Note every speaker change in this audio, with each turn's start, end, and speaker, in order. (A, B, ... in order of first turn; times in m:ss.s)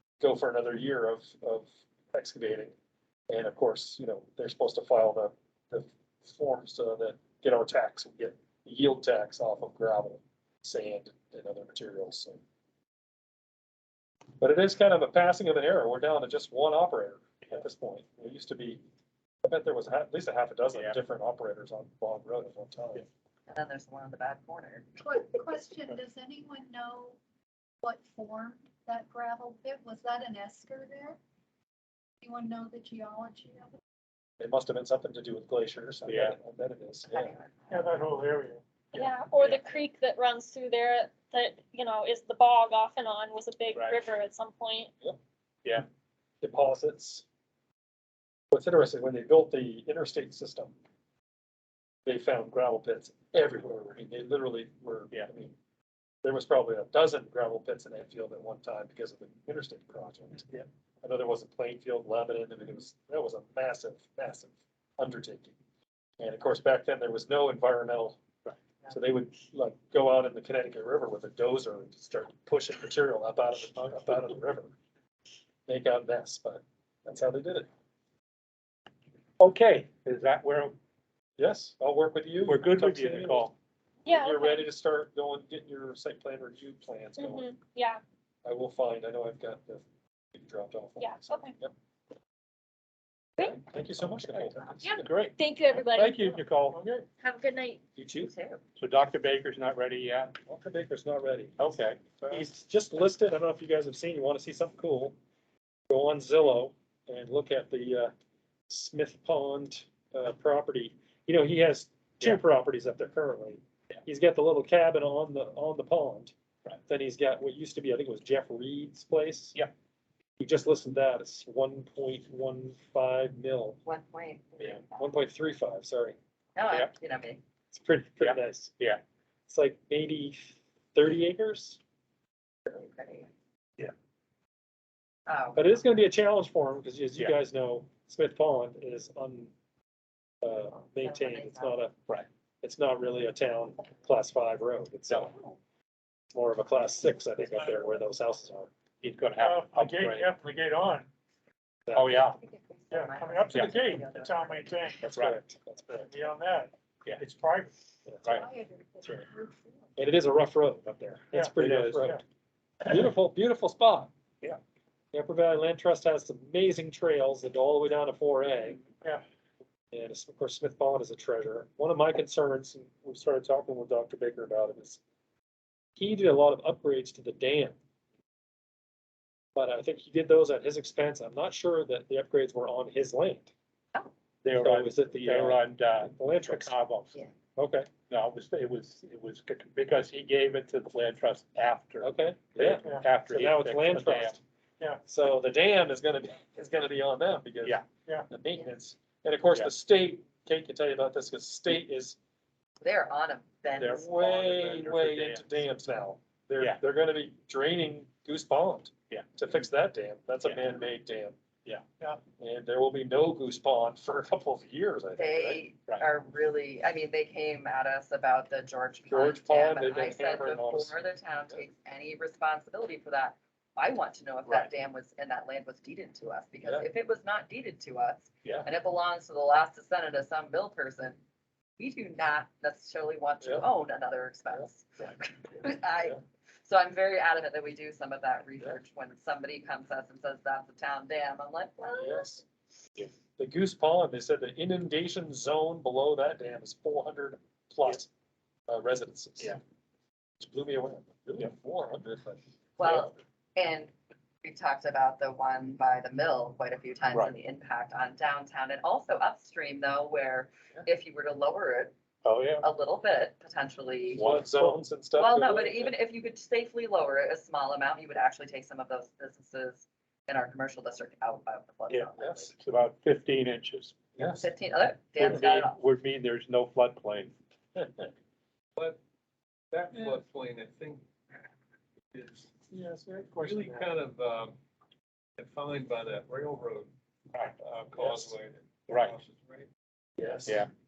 0:00.2-0:02.7 A
0:03.3-0:12.4 A
0:14.4-0:18.8 A
0:19.4-0:23.0 A
0:20.7-0:21.0 B
0:23.5-0:24.9 C
0:25.0-0:27.2 D
0:27.8-0:31.2 D
0:32.2-0:33.8 D
0:34.4-0:37.3 A
0:36.1-0:36.4 B
0:37.1-0:38.0 C
0:37.7-0:38.6 E
0:38.9-0:44.9 F
0:43.7-0:44.0 B
0:46.4-0:47.2 A
0:48.5-0:50.7 A
0:52.1-0:55.6 A
0:56.2-1:05.6 A
1:06.2-1:08.2 A
1:08.9-1:14.8 A
1:15.7-1:17.7 A
1:19.4-1:20.8 B
1:21.4-1:23.5 A
1:22.5-1:23.6 B
1:24.0-1:24.7 F
1:24.1-1:27.5 A
1:27.2-1:28.0 F
1:28.4-1:31.7 A
1:31.0-1:31.6 F
1:33.4-1:35.1 A
1:34.3-1:35.4 B
1:34.8-1:36.4 F
1:35.9-1:36.8 B
1:36.8-1:37.0 E
1:37.2-1:37.8 F
1:38.0-1:38.3 A
1:38.2-1:38.6 C
1:38.8-1:40.4 B
1:40.4-1:41.6 A
1:41.6-1:42.5 B
1:42.3-1:45.2 A
1:45.9-1:48.1 A
1:48.7-1:56.3 A
1:56.9-1:59.6 A
2:00.4-2:03.8 A
2:03.8-2:05.2 C
2:04.6-2:06.2 A
2:06.6-2:07.4 C
2:07.7-2:08.7 A
2:08.2-2:09.0 B
2:09.5-2:11.8 A
2:12.7-2:13.3 C
2:15.3-2:15.8 C
2:15.6-2:19.5 A
2:20.4-2:21.9 A
2:21.0-2:21.8 C
2:22.6-2:25.4 A
2:25.1-2:25.3 B
2:26.3-2:28.7 A
2:29.0-2:30.3 B
2:29.4-2:31.1 E
2:31.9-2:32.2 A
2:31.9-2:32.4 B
2:32.1-2:34.8 C
2:32.9-2:35.0 E
2:33.5-2:33.8 B
2:35.0-2:36.1 A
2:35.0-2:35.4 B
2:36.1-2:37.7 E
2:38.3-2:39.8 D
2:40.0-2:42.2 A
2:41.6-2:42.1 B
2:42.8-2:44.1 A
2:45.1-2:48.8 A
2:49.9-2:55.0 A
2:56.0-2:57.8 A
2:59.6-3:03.5 A
3:04.4-3:07.2 B
3:04.6-3:06.7 A
3:07.6-3:07.9 A
3:08.1-3:14.4 B
3:12.0-3:14.4 A
3:15.1-3:22.2 A
3:22.8-3:24.1 C
3:23.8-3:25.6 B
3:23.8-3:31.4 A
3:32.4-3:35.6 A
3:35.2-3:51.2 C
3:39.1-3:41.0 A
3:51.8-4:02.2 C
4:02.0-4:02.4 A
4:03.4-4:08.1 A
4:08.7-4:09.6 A
4:10.4-4:12.4 A
4:12.8-4:13.9 C
4:14.4-4:22.0 C
4:22.2-4:22.7 B
4:22.6-4:24.4 C
4:24.1-4:24.8 B
4:24.1-4:26.0 A
4:25.1-4:32.5 C
4:31.9-4:34.0 B
4:32.2-4:32.5 A
4:34.2-4:34.5 A
4:34.4-4:35.8 C
4:35.2-4:37.4 B
4:39.7-4:41.1 G
4:42.1-4:42.5 G
4:42.7-4:43.8 E
4:43.4-4:44.6 G
4:45.4-4:46.9 G
4:47.6-4:49.7 G
4:48.0-4:48.3 A
4:48.9-4:49.2 B
4:50.2-4:50.6 A